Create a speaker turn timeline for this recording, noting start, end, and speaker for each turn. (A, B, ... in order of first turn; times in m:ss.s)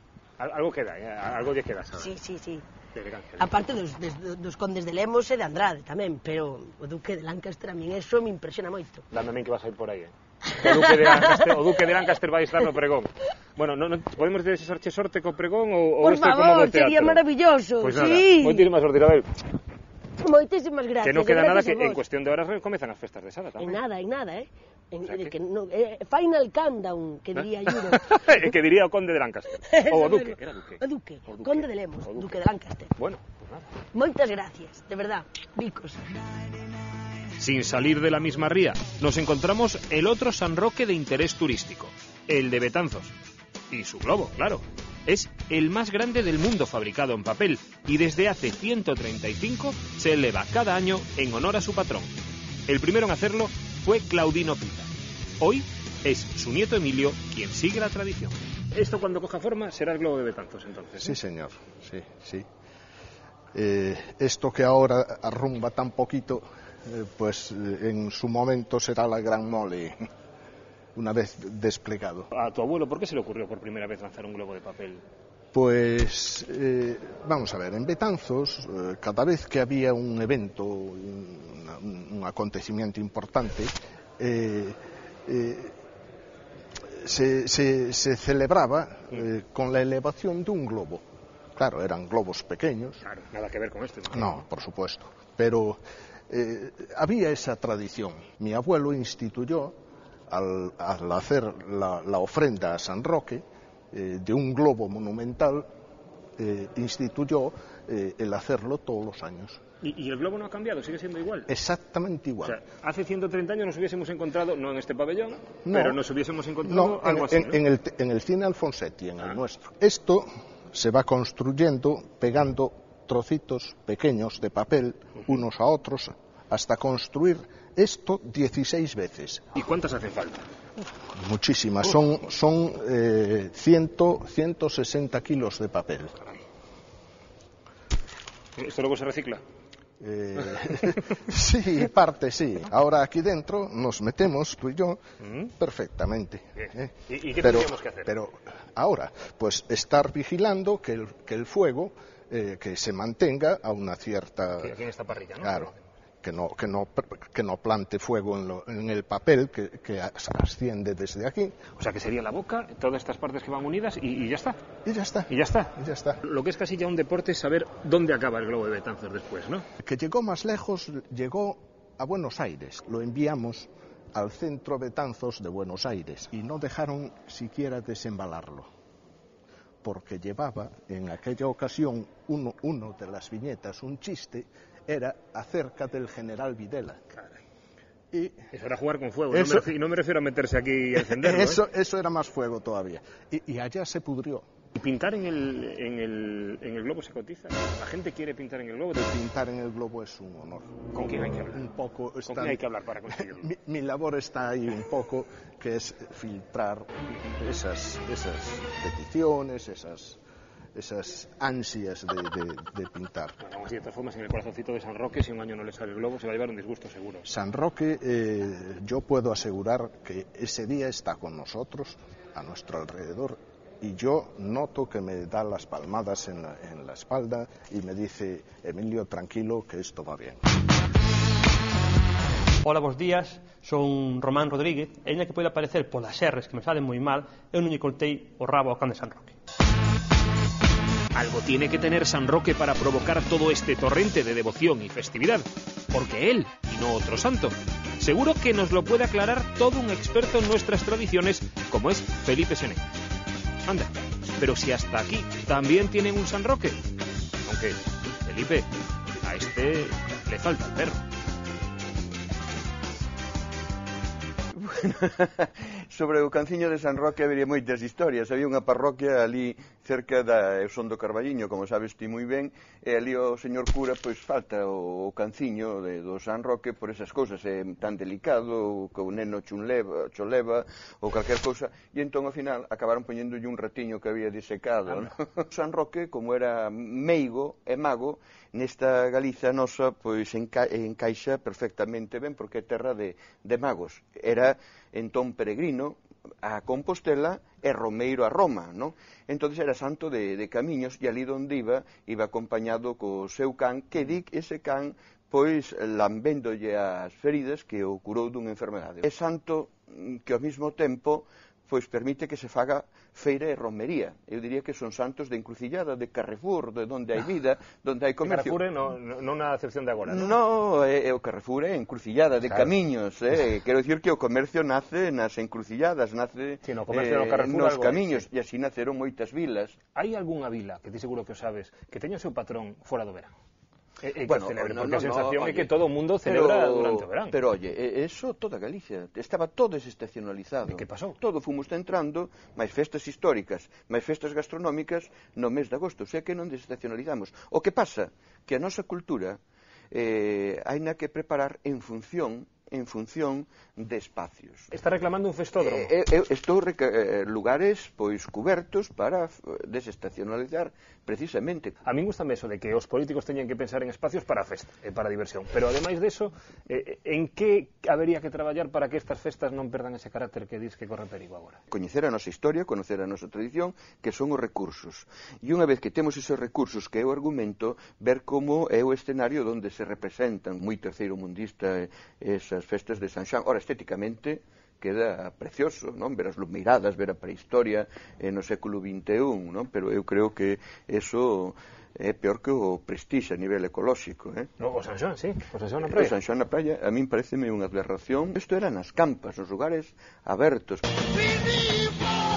0:00.4-0:02.1 A
0:01.9-0:02.6 B
0:02.9-0:03.6 A
0:03.4-0:09.0 B
0:09.1-0:17.2 A
0:10.6-0:11.8 B
0:16.0-0:18.7 B
0:17.8-0:19.3 A
0:20.2-0:22.0 B
0:21.0-0:23.8 A
0:23.6-0:28.2 B
0:25.0-0:25.3 A
0:27.3-0:32.3 A
0:29.7-0:32.9 B
0:33.0-0:33.7 A
0:33.9-0:36.0 B
0:37.4-0:43.1 A
0:43.7-0:52.1 A
0:52.7-0:54.9 A
0:55.4-1:01.2 A
1:01.0-1:02.5 C
1:03.5-1:10.0 C
1:10.9-1:12.3 C
1:12.3-1:15.0 A
1:15.5-1:25.8 C
1:26.8-1:31.0 C
1:31.6-1:33.0 C
1:33.0-1:34.4 A
1:34.1-1:45.7 C
1:46.4-1:49.6 C
1:49.8-1:51.5 A
1:51.5-1:52.6 C
1:52.4-1:57.6 A
1:55.6-1:56.0 C
1:56.6-2:09.4 C
2:09.5-2:10.4 A
2:11.2-2:16.2 C
2:18.6-2:19.4 A
2:20.0-2:25.0 C
2:25.2-2:25.5 A
2:25.6-2:34.8 C
2:26.6-2:28.1 A
2:34.6-2:35.8 A
2:35.4-2:41.6 C
2:41.8-2:44.6 A
2:44.8-2:46.2 C
2:45.3-2:49.6 A
2:49.8-2:58.7 C
2:59.8-3:07.0 C
3:07.1-3:07.4 A
3:08.1-3:08.5 C
3:08.5-3:11.6 A
3:09.3-3:09.7 C
3:11.0-3:14.5 C
3:14.8-3:19.0 A
3:18.9-3:20.7 C
3:20.9-3:21.6 A
3:21.5-3:30.2 C
3:22.3-3:23.5 A
3:30.7-3:33.4 C
3:33.4-3:37.2 A
3:37.2-3:50.4 C
3:52.6-3:59.3 D
4:01.1-4:12.8 A
4:13.6-4:16.8 A
4:17.4-4:18.7 A
4:19.2-4:21.0 A
4:24.5-5:18.6 E
5:18.2-5:20.4 A
5:20.0-5:29.8 E
5:22.4-5:22.7 A
5:26.6-5:28.2 A
5:29.9-5:33.3 A
5:34.0-5:37.4 A
5:34.2-5:35.7 E
5:36.2-5:49.4 E
5:40.7-5:41.2 A
5:49.9-5:54.7 E
5:54.7-5:55.9 A
5:55.6-6:01.8 E
6:01.8-6:11.6 A
6:11.7-6:34.5 E
6:34.6-6:36.1 A
6:35.8-6:40.8 E